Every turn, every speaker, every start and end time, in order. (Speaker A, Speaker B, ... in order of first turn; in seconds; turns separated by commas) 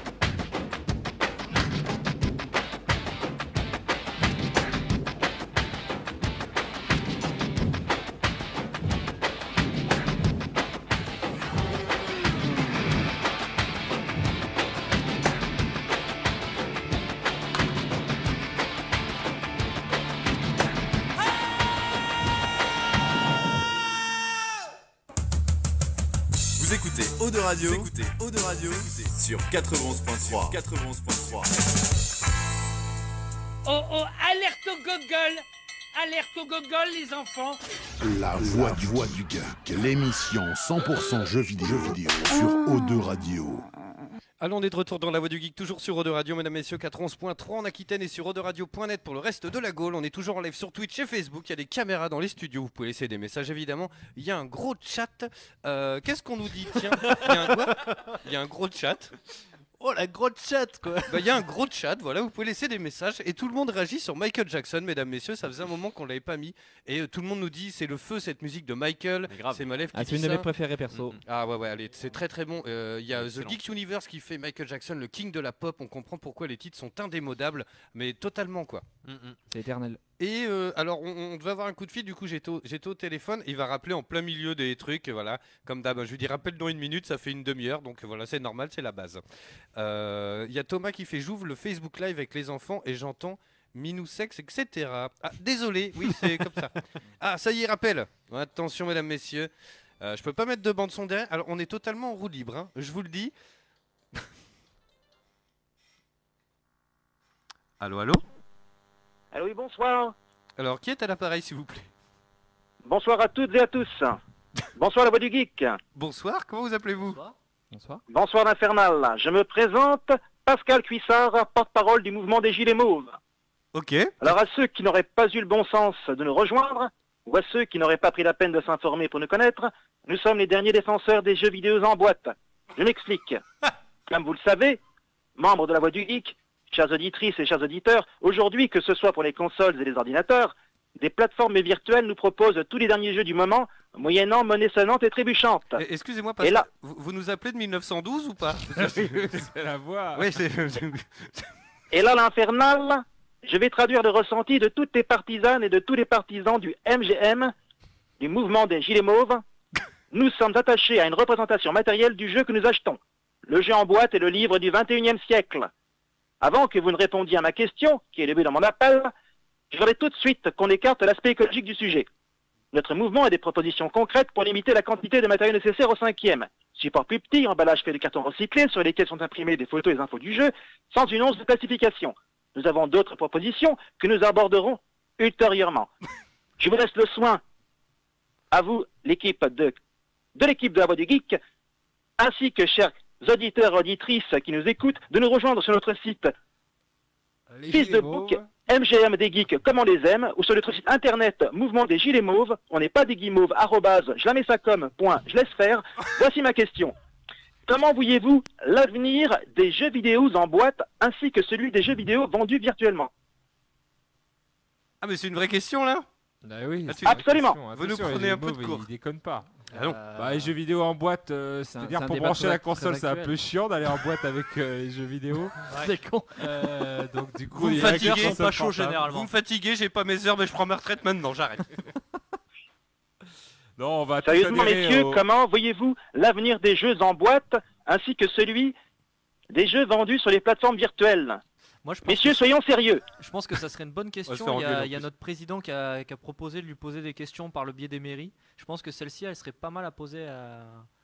Speaker A: 26.6-31.5, Speaker B: 33.6-37.6, Speaker C: 38.0-43.7, Speaker D: 44.4-59.1, Speaker E: 57.0-58.1, Speaker E: 59.8-61.3, Speaker D: 61.1-78.9, Speaker E: 69.3-69.7, Speaker F: 69.9-71.2, Speaker E: 73.1-73.6, Speaker E: 79.0-79.4, Speaker F: 79.5-80.0, Speaker D: 80.2-89.2, Speaker D: 89.8-99.5, Speaker D: 100.0-103.3, Speaker D: 107.8-108.2, Speaker G: 109.3-110.2, Speaker D: 110.6-111.9, Speaker G: 112.8-114.2, Speaker G: 114.8-115.8, Speaker D: 116.0-117.2, Speaker H: 117.1-117.3, Speaker F: 117.7-118.0, Speaker G: 118.1-123.2, Speaker D: 123.7-124.2, Speaker G: 124.2-133.4, Speaker G: 134.1-134.8, Speaker G: 135.4-145.8, Speaker D: 145.8-149.4, Speaker G: 146.4-146.7, Speaker I: 148.8-150.3, Speaker D: 150.2-151.5, Speaker G: 151.9-157.5, Speaker G: 158.2-159.4, Speaker G: 160.1-165.7, Speaker G: 166.4-169.1, Speaker G: 169.7-172.1, Speaker G: 172.7-185.9, Speaker G: 186.6-187.4, Speaker G: 188.5-189.8, Speaker G: 190.3-191.4, Speaker G: 192.2-196.3, Speaker F: 197.6-198.3, Speaker G: 197.7-206.9, Speaker G: 207.7-213.1, Speaker D: 215.0-216.1, Speaker I: 216.4-225.7, Speaker D: 216.9-218.8, Speaker G: 217.1-217.6, Speaker D: 219.7-220.0, Speaker H: 219.7-220.5, Speaker F: 221.7-223.3, Speaker H: 225.7-226.7, Speaker I: 226.4-229.0, Speaker D: 227.6-231.8, Speaker H: 227.7-229.3, Speaker I: 233.8-235.2, Speaker G: 234.2-238.8, Speaker G: 239.5-241.4, Speaker H: 241.8-242.5, Speaker G: 242.1-243.0, Speaker H: 243.2-250.9, Speaker D: 244.3-245.1